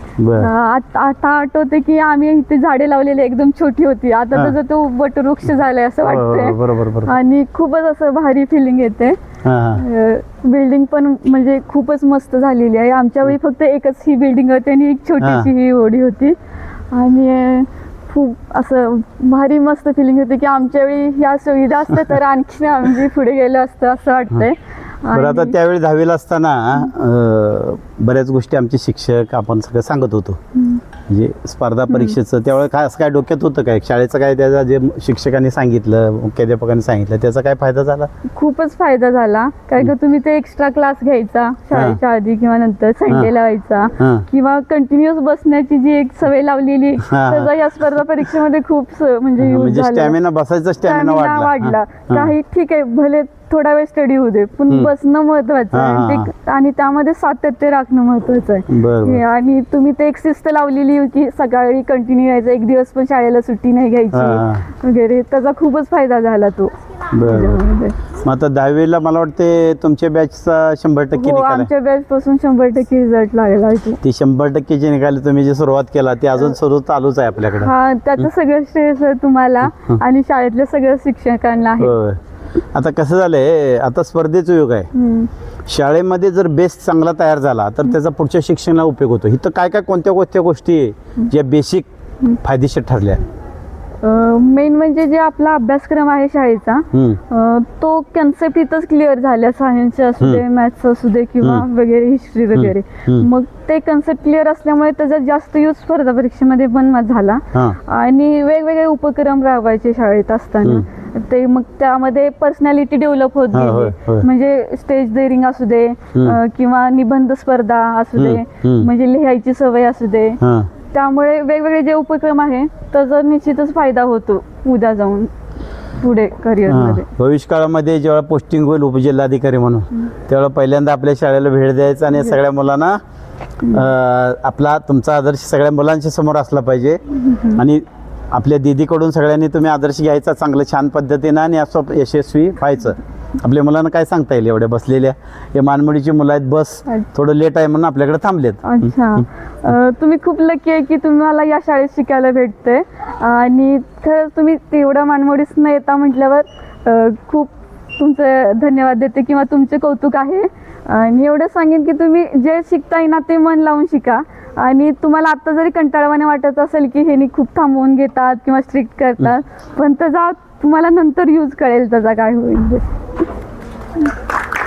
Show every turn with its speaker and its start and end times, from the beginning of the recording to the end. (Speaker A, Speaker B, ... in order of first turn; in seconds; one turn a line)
Speaker A: 0.2-0.5
Speaker B: 0.3-9.2
Speaker A: 6.0-7.1
Speaker A: 9.4-9.8
Speaker B: 9.7-16.3
Speaker A: 15.2-15.5
Speaker B: 16.9-25.6
Speaker A: 25.1-30.4
Speaker B: 30.5-30.8
Speaker A: 31.1-38.1
Speaker B: 31.9-32.1
Speaker B: 38.2-50.1
Speaker A: 44.0-44.2
Speaker A: 47.0-47.5
Speaker A: 49.4-52.3
Speaker B: 50.8-68.0
Speaker A: 55.7-56.3
Speaker A: 58.7-59.2
Speaker A: 64.1-64.6
Speaker A: 67.1-71.7
Speaker B: 71.1-74.0
Speaker A: 74.0-77.7
Speaker B: 77.5-82.0
Speaker A: 81.8-82.2
Speaker A: 82.7-84.9
Speaker B: 84.9-85.3
Speaker A: 85.7-93.2
Speaker B: 94.0-120.4
Speaker A: 96.9-97.2
Speaker A: 102.5-103.3
Speaker A: 113.5-114.3
Speaker A: 118.2-118.9
Speaker A: 120.4-120.7
Speaker B: 120.9-125.3
Speaker B: 126.0-127.1
Speaker A: 126.7-133.0
Speaker A: 133.6-149.2
Speaker B: 137.2-137.6
Speaker B: 148.6-173.0